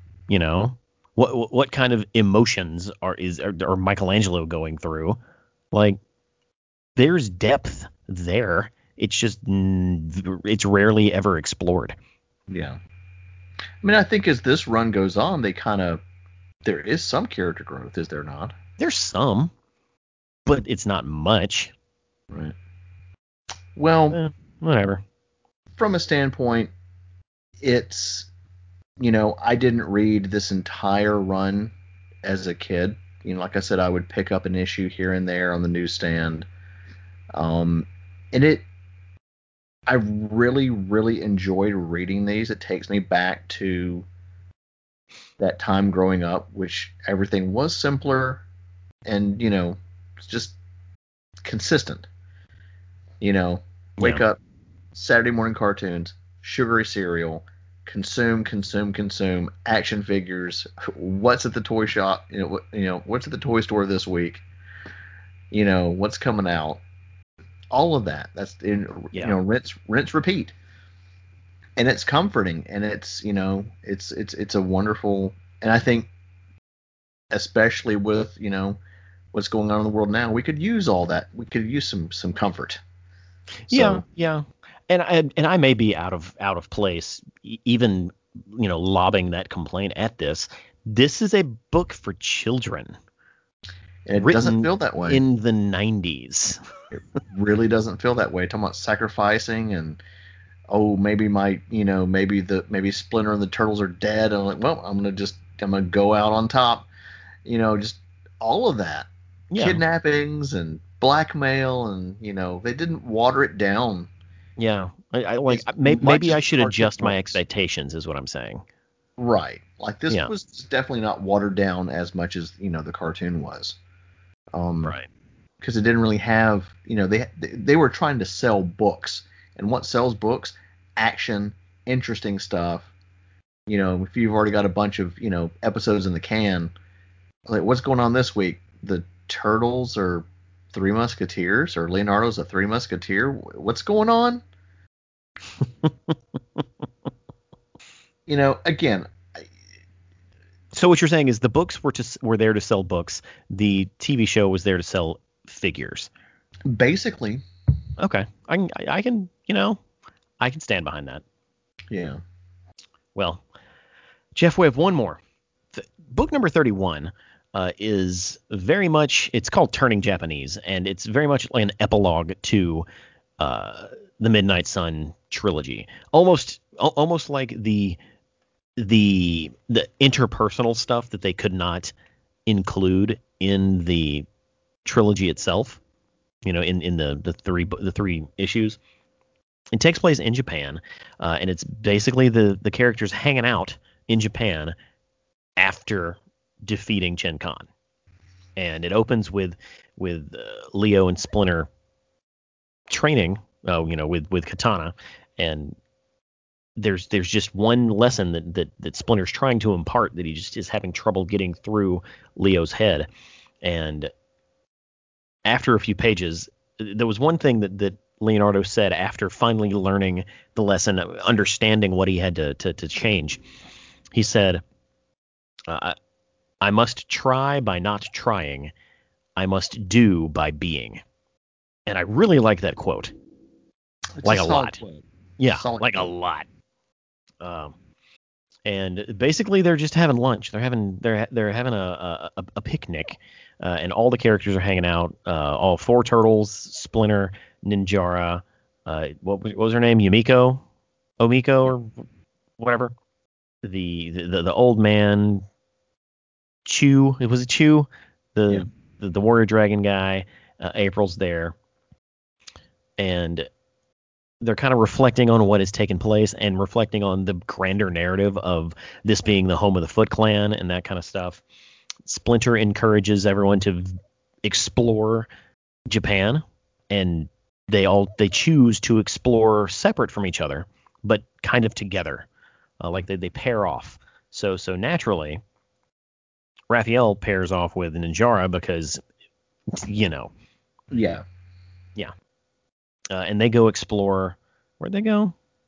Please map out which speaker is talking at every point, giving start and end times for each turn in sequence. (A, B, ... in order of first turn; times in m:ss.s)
0:00.3-0:05.2 A
0:05.7-0:06.0 A
0:07.0-0:12.0 A
0:12.5-0:12.8 B
0:13.8-0:16.0 B
0:16.6-0:18.5 B
0:18.8-0:19.5 A
0:20.4-0:21.7 A
0:23.8-0:24.2 B
0:24.1-0:25.0 A
0:25.8-0:26.7 B
0:27.6-0:28.3 B
0:29.0-0:36.5 B
0:37.3-0:38.6 B
0:39.9-0:44.0 B
0:45.4-0:48.4 B
0:49.0-0:50.6 B
0:51.4-0:52.1 B
0:53.2-0:54.4 B
0:54.9-1:04.4 B
1:05.5-1:06.8 B
1:07.7-1:10.5 B
1:11.8-1:16.1 B
1:17.3-1:18.8 B
1:19.3-1:22.8 B
1:23.7-1:33.0 A
1:23.7-1:24.0 B
1:34.1-1:35.2 B
1:34.2-1:36.6 A
1:36.9-1:40.0 B
1:40.7-1:46.9 B
1:47.4-1:54.1 B
1:49.5-1:49.8 A
1:54.6-1:58.6 A
1:55.5-1:57.4 B
1:59.2-2:03.8 B
2:04.5-2:04.9 B
2:04.8-2:05.1 A
2:05.6-2:12.9 B
2:13.7-2:16.7 B
2:17.5-2:24.4 B
2:28.3-2:29.5 B
2:30.7-2:36.1 A
2:36.7-2:37.4 B
2:38.0-2:39.8 A
2:40.4-2:41.2 A
2:41.9-2:42.2 B
2:43.1-2:43.4 A
2:44.3-2:45.2 A
2:45.7-2:52.8 A
2:53.4-2:58.0 A
2:58.8-3:01.9 A
3:02.4-3:04.2 A
3:04.8-3:05.8 A
3:06.4-3:08.8 A
3:09.7-3:14.7 A
3:15.6-3:17.7 A
3:18.6-3:21.7 A
3:22.9-3:25.8 A
3:26.8-3:33.1 A
3:33.6-3:34.1 A
3:35.4-3:43.4 A
3:44.1-3:44.6 A
3:45.7-3:46.0 A
3:46.6-3:48.7 A
3:49.4-3:51.0 A
3:51.8-3:53.1 A
3:54.2-3:56.1 B
3:54.2-3:54.8 A
3:55.4-3:56.4 A
3:57.4-3:57.7 A
3:58.6-4:10.6 A
4:11.2-4:12.0 A
4:12.6-4:12.9 A
4:13.6-4:15.4 A
4:16.6-4:21.5 A
4:23.0-4:23.5 A
4:24.4-4:31.4 A
4:32.0-4:35.3 A
4:35.9-4:42.3 A
4:42.8-4:45.4 A
4:46.7-4:49.0 A
4:49.7-4:50.3 A
4:50.9-4:51.2 B
4:53.1-4:55.3 A